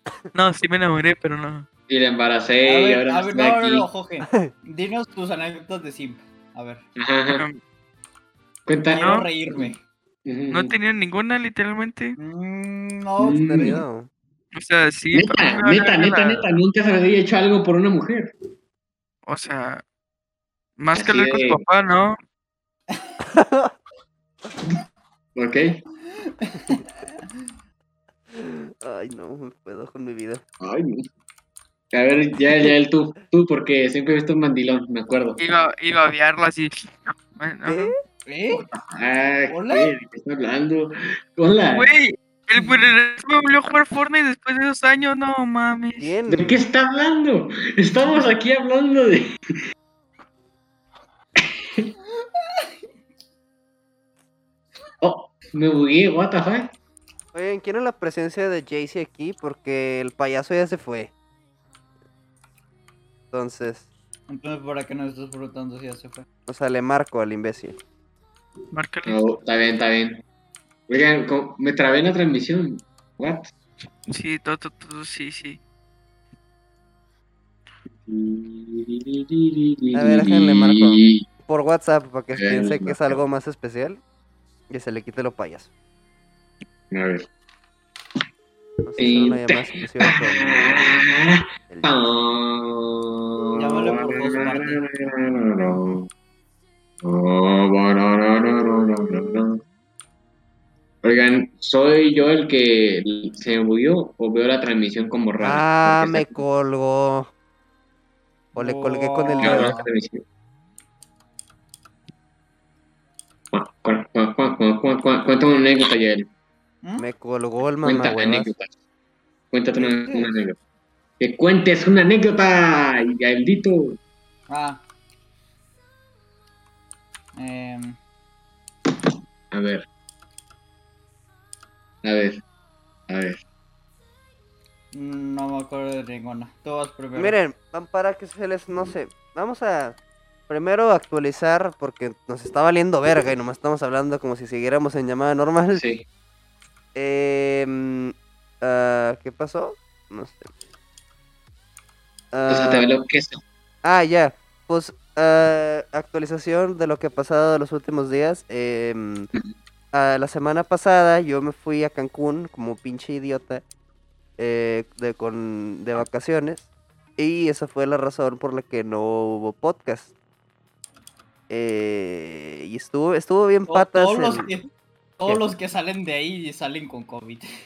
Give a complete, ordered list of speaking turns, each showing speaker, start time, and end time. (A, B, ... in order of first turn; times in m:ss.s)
0:00.3-0:01.7 A
0:01.9-0:03.9 B
0:02.6-0:06.8 C
0:07.0-0:07.4 B
0:07.3-0:07.6 A
0:08.7-0:09.0 B
0:08.9-0:09.8 C
0:09.0-0:09.3 A
0:10.2-0:10.7 B
0:10.5-0:12.2 A
0:12.2-0:13.8 C
0:13.2-0:13.8 B
0:13.4-0:14.1 D
0:14.5-0:16.5 A
0:15.1-0:18.3 B
0:19.3-0:19.8 A
0:20.8-0:22.2 A
0:20.9-0:21.6 B
0:23.3-0:23.7 D
0:25.4-0:25.8 B
0:26.3-0:26.9 C
0:28.3-0:30.4 D
0:30.6-0:31.0 B
0:31.9-0:35.4 B
0:35.4-0:37.9 A
0:37.6-0:37.9 D
0:38.2-0:38.7 C
0:38.5-0:41.9 B
0:39.5-0:39.9 C
0:41.7-0:46.1 A
0:46.0-0:46.6 D
0:46.3-0:49.3 B
0:55.0-0:56.7 B
0:57.3-1:01.1 D
1:03.3-1:03.9 D
1:04.3-1:06.2 C
1:06.5-1:07.8 D
1:08.7-1:09.2 A
1:09.1-1:10.2 B
1:10.9-1:13.5 B
1:14.1-1:15.6 A
1:18.0-1:21.2 B
1:19.9-1:24.0 D
1:22.4-1:23.2 B
1:24.7-1:25.7 D
1:26.9-1:27.3 B
1:28.9-1:30.8 D
1:29.0-1:36.1 B
1:31.7-1:32.0 D
1:33.6-1:34.9 C
1:37.0-1:39.6 B
1:41.0-1:46.4 B
1:45.4-1:47.3 D
1:48.5-1:49.9 C
1:48.6-1:49.7 D
1:49.4-1:50.2 B
1:53.5-1:56.3 B
1:56.8-1:57.1 C
1:57.0-1:58.5 D
1:57.8-1:58.7 B
1:59.5-2:00.6 B
2:00.0-2:00.3 C
2:01.2-2:04.0 B
2:04.5-2:04.8 C
2:07.4-2:08.0 C
2:09.5-2:09.9 B
2:12.0-2:12.4 B
2:13.1-2:13.4 B
2:14.9-2:17.4 C
2:17.1-2:20.0 D
2:20.5-2:25.8 D
2:25.7-2:26.0 B
2:26.9-2:30.5 D
2:32.3-2:32.9 D
2:32.5-2:33.4 B
2:33.8-2:39.3 D
2:39.9-2:43.6 D
2:44.4-2:50.1 D
2:51.5-2:54.5 D
2:53.7-2:57.4 C